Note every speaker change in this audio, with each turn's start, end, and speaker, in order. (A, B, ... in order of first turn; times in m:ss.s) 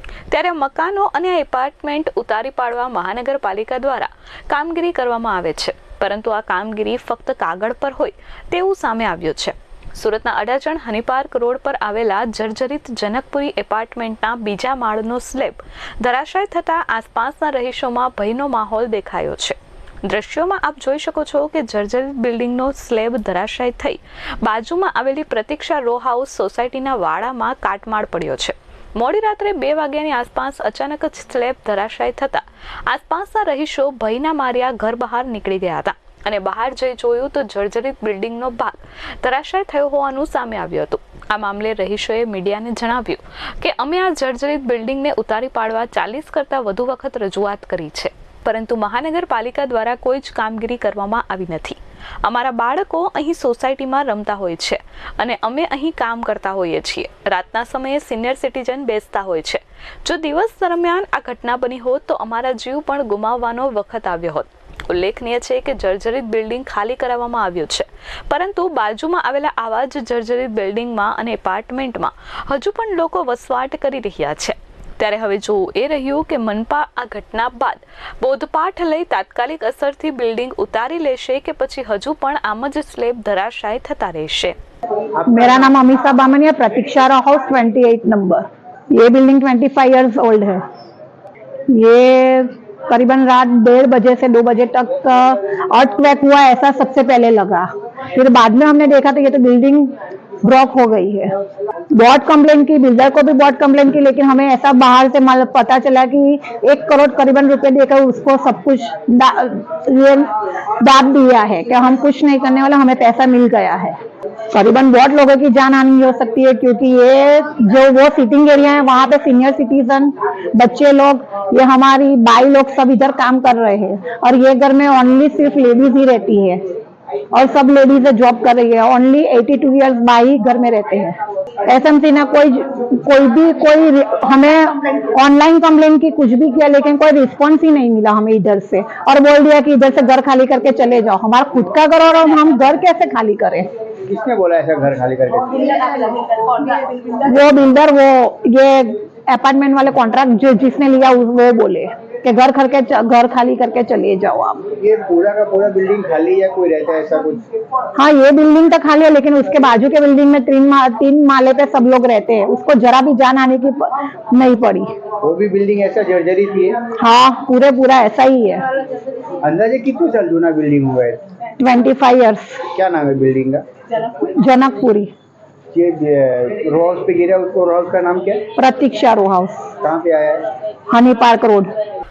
0:00.3-1:24.6 A
1:25.3-1:30.6 B
1:31.7-1:41.3 B
1:41.9-1:54.0 B
1:54.5-2:06.6 B
2:07.3-2:23.7 B
2:24.1-2:26.0 C
2:26.6-2:34.7 B
2:34.8-2:37.4 C
2:38.0-2:44.9 B
2:45.2-2:46.8 C
2:47.0-2:48.7 B
2:49.4-2:51.2 C
2:51.6-2:52.7 B
2:52.7-2:53.6 C
2:54.2-2:55.1 B
2:55.7-2:58.5 C
2:58.6-2:59.7 B
2:59.8-3:00.5 C
3:00.9-3:01.7 B